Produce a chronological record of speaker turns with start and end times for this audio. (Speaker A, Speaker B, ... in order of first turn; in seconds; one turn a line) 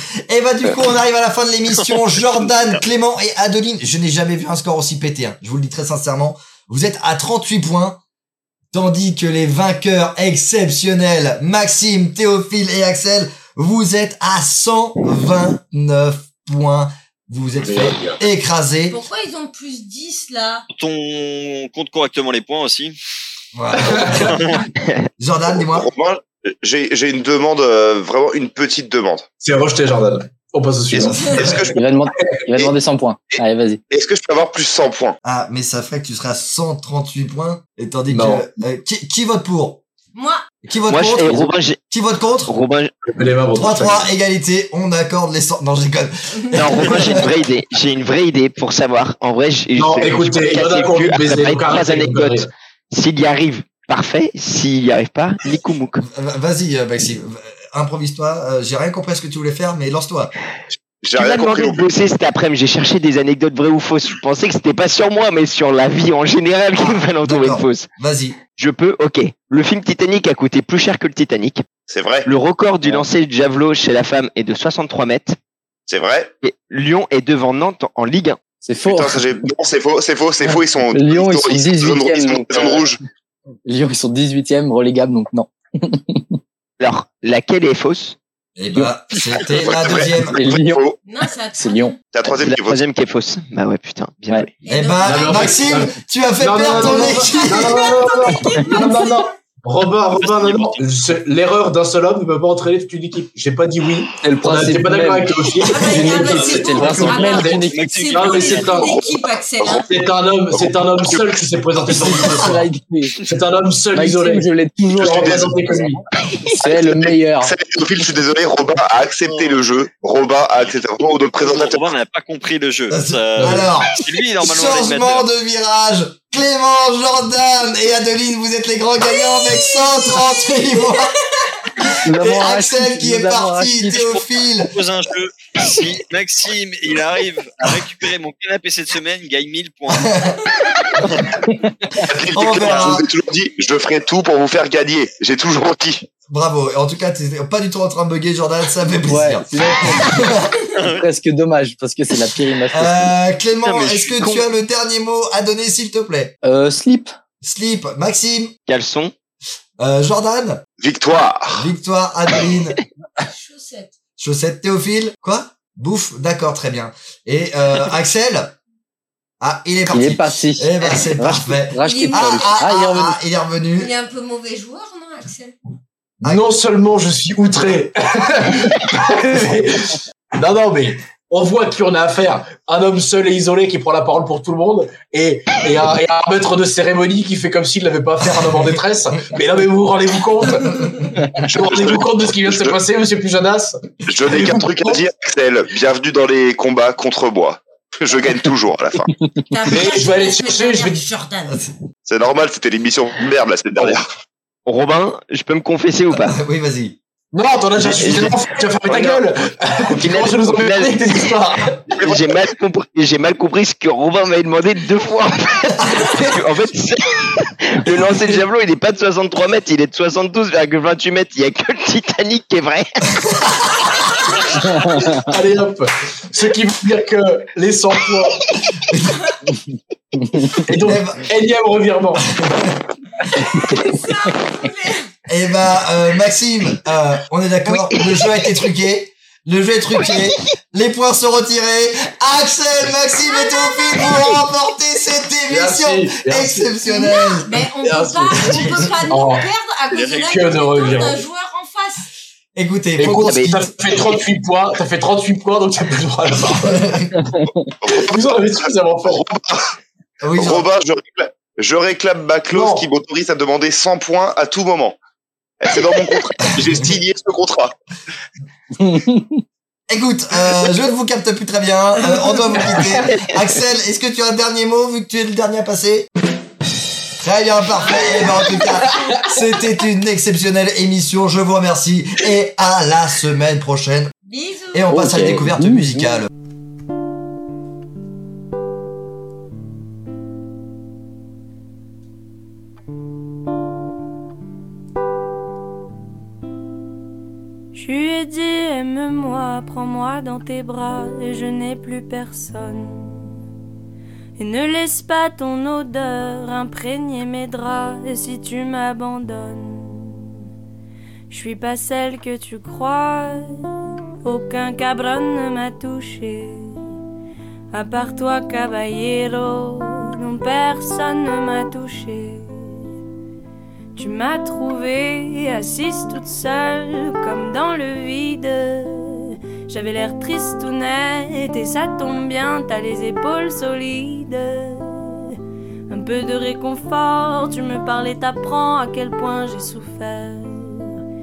Speaker A: 0.3-8.0
Speaker A: 8.7-19.0
Speaker B: 17.6-18.2
Speaker C: 18.9-20.6
Speaker D: 20.7-22.9
Speaker A: 23.5-24.4
Speaker B: 23.8-24.3
Speaker D: 24.2-24.6
Speaker E: 24.8-25.1
Speaker A: 25.2-25.9
Speaker F: 25.5-29.3
Speaker B: 29.4-32.4
Speaker F: 30.9-31.8
Speaker G: 31.8-33.8
Speaker F: 33.3-35.2
Speaker A: 35.2-39.8
Speaker B: 38.1-38.5
Speaker C: 40.1-40.4
Speaker A: 40.6-42.5
Speaker E: 40.9-41.8
Speaker E: 42.5-43.1
Speaker B: 43.1-44.1
Speaker A: 43.5-47.3
Speaker E: 46.5-56.0
Speaker B: 49.8-52.5
Speaker A: 56.0-60.3
Speaker F: 60.7-61.9
Speaker E: 61.1-67.9
Speaker A: 67.2-68.4
Speaker E: 68.5-71.6
Speaker F: 71.9-72.3
Speaker E: 72.2-75.4
Speaker F: 75.9-76.3
Speaker E: 76.4-78.4
Speaker G: 78.6-79.3
Speaker F: 78.8-83.0
Speaker G: 80.4-82.9
Speaker G: 83.6-86.4
Speaker E: 86.8-88.2
Speaker A: 88.6-90.4
Speaker F: 89.6-91.0
Speaker G: 90.3-90.8
Speaker C: 91.0-91.9
Speaker G: 91.6-91.9
Speaker F: 92.1-92.8
Speaker E: 92.2-94.5
Speaker C: 94.6-95.9
Speaker A: 94.7-97.9
Speaker B: 95.0-108.9
Speaker C: 96.7-99.3
Speaker G: 98.5-99.0
Speaker G: 104.2-108.0
Speaker C: 105.7-109.9
Speaker D: 107.5-108.9
Speaker F: 108.9-109.9
Speaker B: 109.8-112.7
Speaker F: 110.5-112.4
Speaker G: 112.0-113.3
Speaker B: 113.2-116.0
Speaker G: 113.9-117.5
Speaker F: 115.0-115.8
Speaker F: 116.7-121.9
Speaker D: 121.4-125.3
Speaker A: 122.9-131.2
Speaker B: 123.4-123.7
Speaker C: 129.0-131.9
Speaker A: 131.8-134.7
Speaker G: 132.0-134.1
Speaker D: 133.9-140.2
Speaker A: 139.9-140.4
Speaker G: 141.4-142.0
Speaker F: 142.0-146.1
Speaker A: 142.3-143.0
Speaker D: 142.6-142.8
Speaker A: 146.3-150.5
Speaker G: 149.0-153.1
Speaker D: 150.7-151.1
Speaker A: 152.7-156.3
Speaker E: 153.6-154.4
Speaker G: 156.4-157.1
Speaker A: 157.4-158.5
Speaker E: 158.7-159.1
Speaker A: 159.8-160.6
Speaker F: 160.8-161.6
Speaker A: 161.5-162.8
Speaker C: 163.2-163.9
Speaker A: 164.2-168.5
Speaker A: 169.4-173.9
Speaker G: 169.9-173.2
Speaker C: 171.8-172.6
Speaker C: 173.8-175.6
Speaker B: 176.2-195.0
Speaker A: 188.2-188.8
Speaker C: 190.7-191.0
Speaker F: 191.5-192.8
Speaker F: 194.1-199.1
Speaker C: 199.5-201.6
Speaker B: 199.7-201.0
Speaker F: 202.1-204.1
Speaker E: 204.7-206.4
Speaker A: 206.1-206.9
Speaker B: 207.3-211.9
Speaker E: 207.8-209.2
Speaker E: 209.9-211.3
Speaker F: 211.9-212.3
Speaker E: 212.0-223.1
Speaker A: 223.2-223.9
Speaker G: 224.7-225.2
Speaker B: 225.3-228.4
Speaker C: 229.1-229.3
Speaker G: 230.2-230.6
Speaker B: 230.7-232.2
Speaker A: 230.7-231.2
Speaker A: 232.3-232.8
Speaker C: 233.3-235.1
Speaker A: 235.3-247.5
Speaker E: 237.7-238.5
Speaker E: 240.0-240.4
Speaker C: 243.2-244.3
Speaker B: 245.5-246.7
Speaker C: 246.8-252.1
Speaker B: 247.5-249.5
Speaker A: 248.4-248.8
Speaker D: 249.9-251.2
Speaker B: 250.3-251.2
Speaker A: 252.5-253.6
Speaker B: 253.0-257.1
Speaker E: 253.1-253.6
Speaker A: 256.6-257.2
Speaker G: 257.2-257.5
Speaker F: 257.8-259.7
Speaker B: 257.9-259.2
Speaker A: 260.2-260.7
Speaker F: 260.3-265.0
Speaker B: 262.5-262.9
Speaker F: 265.6-267.7
Speaker G: 268.8-269.4
Speaker A: 269.9-276.1
Speaker B: 272.6-273.0
Speaker E: 273.0-273.3
Speaker A: 277.2-284.1
Speaker C: 277.8-279.2
Speaker B: 278.9-279.3
Speaker C: 284.2-284.9
Speaker A: 284.7-286.3
Speaker G: 284.9-286.2
Speaker H: 297.7-303.3
Speaker H: 304.4-310.2
Speaker H: 311.3-316.8
Speaker H: 317.7-322.5
Speaker H: 323.9-335.3
Speaker H: 335.9-340.9